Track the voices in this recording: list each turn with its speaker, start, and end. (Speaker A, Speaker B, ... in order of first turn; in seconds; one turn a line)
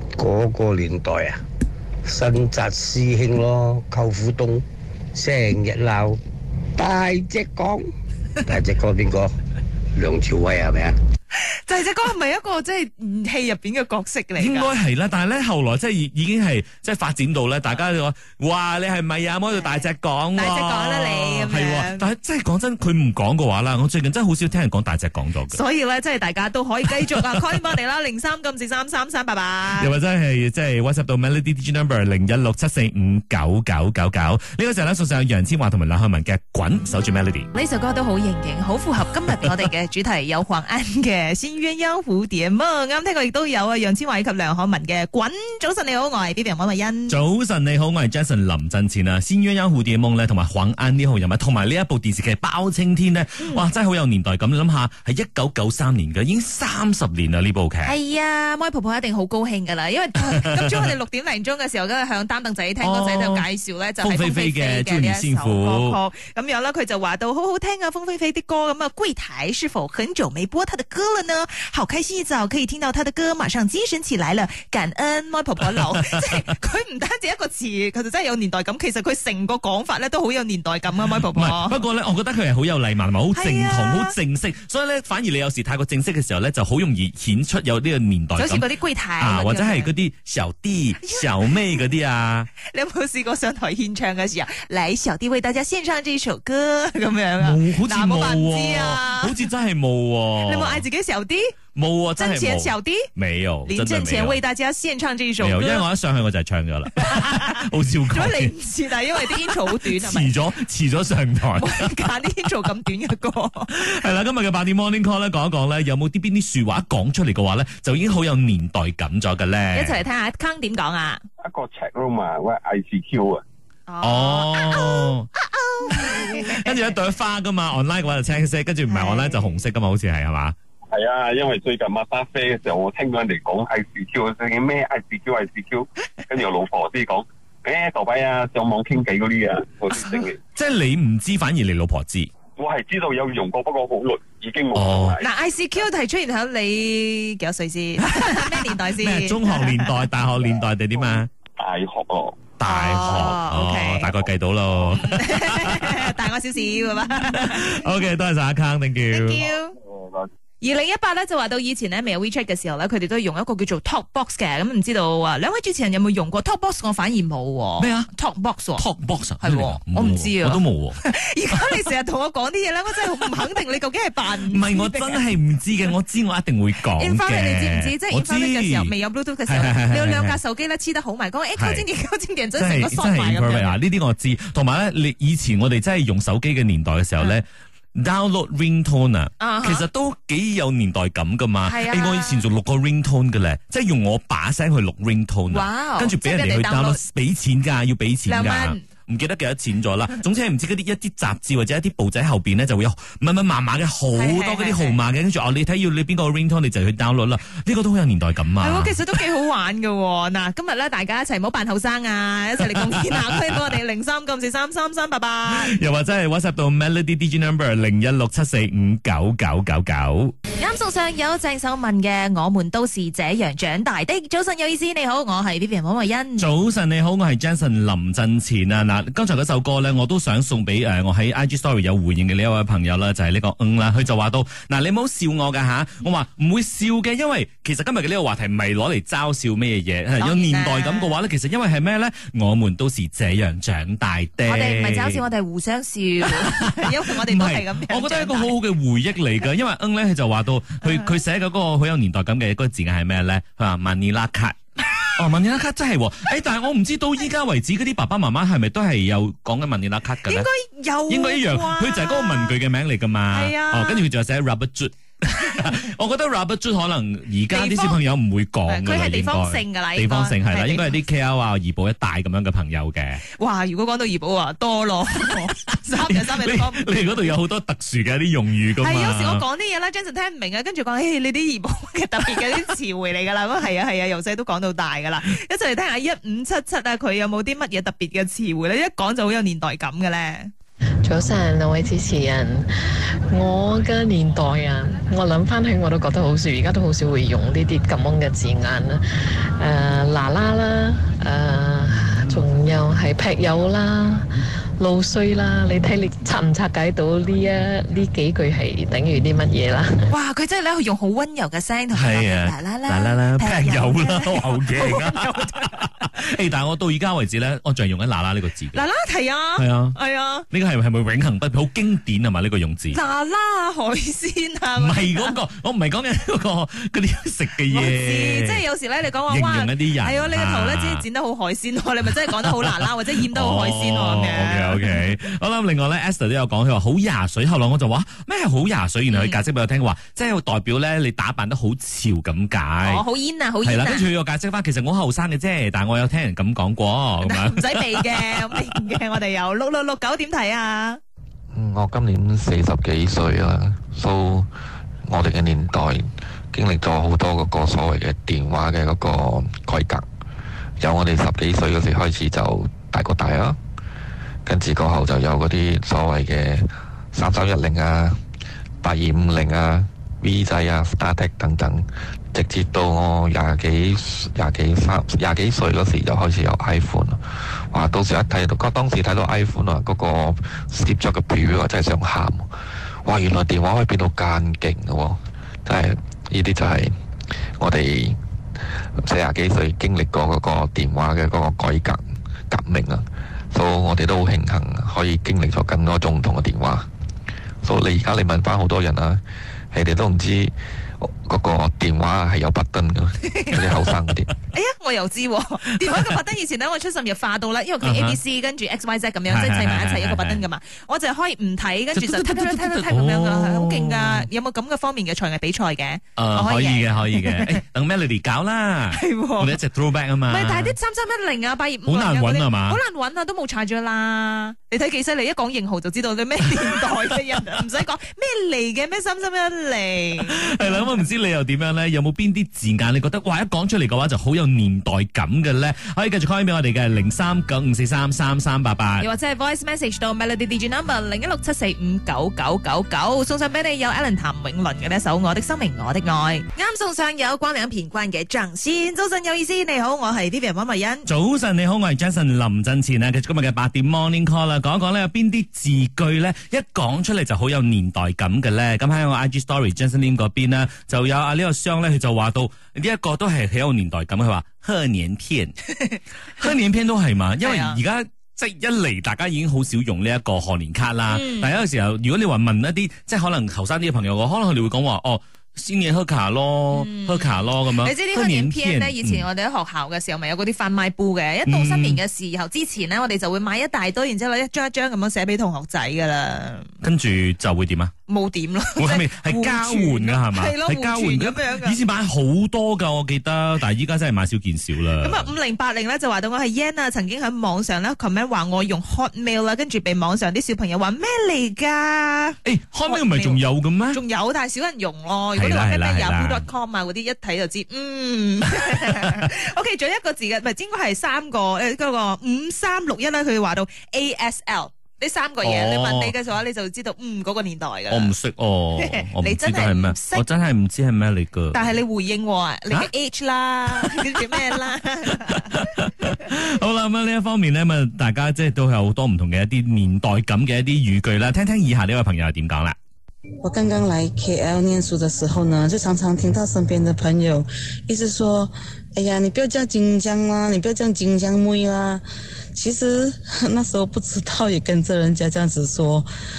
Speaker A: 0.2-1.4
Speaker A: 2.0-6.2
Speaker A: 6.8-7.9
Speaker A: 8.5-9.3
Speaker A: 9.9-11.0
Speaker B: 11.3-14.7
Speaker C: 14.4-25.6
Speaker B: 20.4-22.1
Speaker B: 25.5-29.9
Speaker C: 29.8-37.5
Speaker B: 37.5-47.2
Speaker C: 47.1-58.0
Speaker B: 53.4-53.6
Speaker B: 57.9-81.8
Speaker C: 60.3-60.9
Speaker C: 62.8-63.5
Speaker C: 64.0-66.0
Speaker C: 81.2-88.7
Speaker B: 83.3-84.1
Speaker B: 88.3-89.9
Speaker C: 89.2-92.5
Speaker B: 91.0-91.5
Speaker B: 92.6-99.3
Speaker C: 97.4-100.9
Speaker B: 100.4-101.6
Speaker C: 101.8-104.4
Speaker B: 102.2-103.1
Speaker B: 103.7-105.8
Speaker C: 105.4-108.5
Speaker B: 107.0-110.4
Speaker C: 109.3-111.9
Speaker B: 111.6-113.7
Speaker C: 113.7-120.0
Speaker B: 119.7-121.2
Speaker D: 121.4-123.4
Speaker B: 123.9-127.0
Speaker C: 124.0-125.3
Speaker C: 125.9-130.6
Speaker B: 128.9-129.6
Speaker D: 130.9-140.4
Speaker B: 139.9-140.3
Speaker C: 140.6-142.3
Speaker D: 142.6-145.3
Speaker C: 144.7-145.2
Speaker B: 145.2-149.9
Speaker C: 149.0-151.3
Speaker D: 151.0-152.5
Speaker C: 152.6-156.1
Speaker B: 152.6-154.1
Speaker B: 155.0-157.7
Speaker C: 157.3-159.4
Speaker B: 159.1-159.8
Speaker D: 159.8-160.3
Speaker B: 160.6-168.8
Speaker C: 167.8-168.1
Speaker C: 168.8-171.0
Speaker B: 169.4-175.2
Speaker C: 174.5-178.9
Speaker B: 177.0-183.8
Speaker C: 179.5-180.4
Speaker C: 181.6-181.8
Speaker C: 182.6-209.2
Speaker B: 189.4-189.9
Speaker B: 191.6-192.4
Speaker B: 195.5-197.0
Speaker B: 198.3-198.8
Speaker B: 204.1-205.0
Speaker B: 208.6-215.8
Speaker C: 212.7-213.8
Speaker C: 215.5-220.3
Speaker B: 220.6-226.5
Speaker C: 226.4-245.2
Speaker B: 240.2-241.2
Speaker B: 244.4-248.5
Speaker C: 246.3-254.6
Speaker C: 255.2-260.5
Speaker B: 260.2-262.6
Speaker C: 261.1-273.2
Speaker B: 263.3-264.1
Speaker B: 267.5-268.0
Speaker B: 268.7-270.9
Speaker B: 273.4-277.2
Speaker C: 275.7-279.4
Speaker B: 278.8-290.5
Speaker E: 291.0-292.7
Speaker E: 293.3-299.0
Speaker E: 299.6-304.2
Speaker E: 304.8-309.9
Speaker B: 310.1-316.1
Speaker C: 311.9-315.2
Speaker C: 316.1-318.8
Speaker B: 318.7-320.5
Speaker C: 319.6-320.0
Speaker C: 320.5-323.0
Speaker B: 322.9-325.4
Speaker C: 324.8-328.6
Speaker B: 327.7-335.0
Speaker C: 329.3-331.0
Speaker C: 332.5-343.1
Speaker B: 339.1-339.4
Speaker B: 342.8-344.1
Speaker C: 343.6-348.2
Speaker B: 347.2-351.0
Speaker F: 351.5-354.5
Speaker F: 355.1-360.1
Speaker F: 360.8-363.6
Speaker F: 364.5-368.2
Speaker F: 368.8-382.5
Speaker F: 383.1-386.9
Speaker F: 387.6-388.2
Speaker F: 389.0-396.9
Speaker F: 397.6-404.3
Speaker B: 403.3-403.6
Speaker B: 404.5-417.6
Speaker C: 407.8-408.2
Speaker C: 409.3-410.4
Speaker C: 411.9-414.3
Speaker C: 416.2-420.8
Speaker B: 418.9-419.6
Speaker B: 420.3-430.9
Speaker C: 421.9-422.8
Speaker C: 430.3-439.1
Speaker B: 439.0-451.1
Speaker C: 451.1-465.6
Speaker C: 466.4-479.3
Speaker B: 467.4-467.8
Speaker B: 471.1-471.5
Speaker B: 476.7-486.7
Speaker C: 481.5-482.0
Speaker C: 486.8-487.9
Speaker B: 488.1-491.8
Speaker C: 488.8-495.3
Speaker B: 495.0-518.1
Speaker C: 502.4-504.0
Speaker C: 505.4-506.5
Speaker C: 515.4-516.1
Speaker C: 517.9-521.7
Speaker B: 518.8-520.2
Speaker B: 521.5-525.6
Speaker C: 523.7-524.2
Speaker C: 525.4-532.8
Speaker G: 533.4-542.0
Speaker G: 542.5-546.0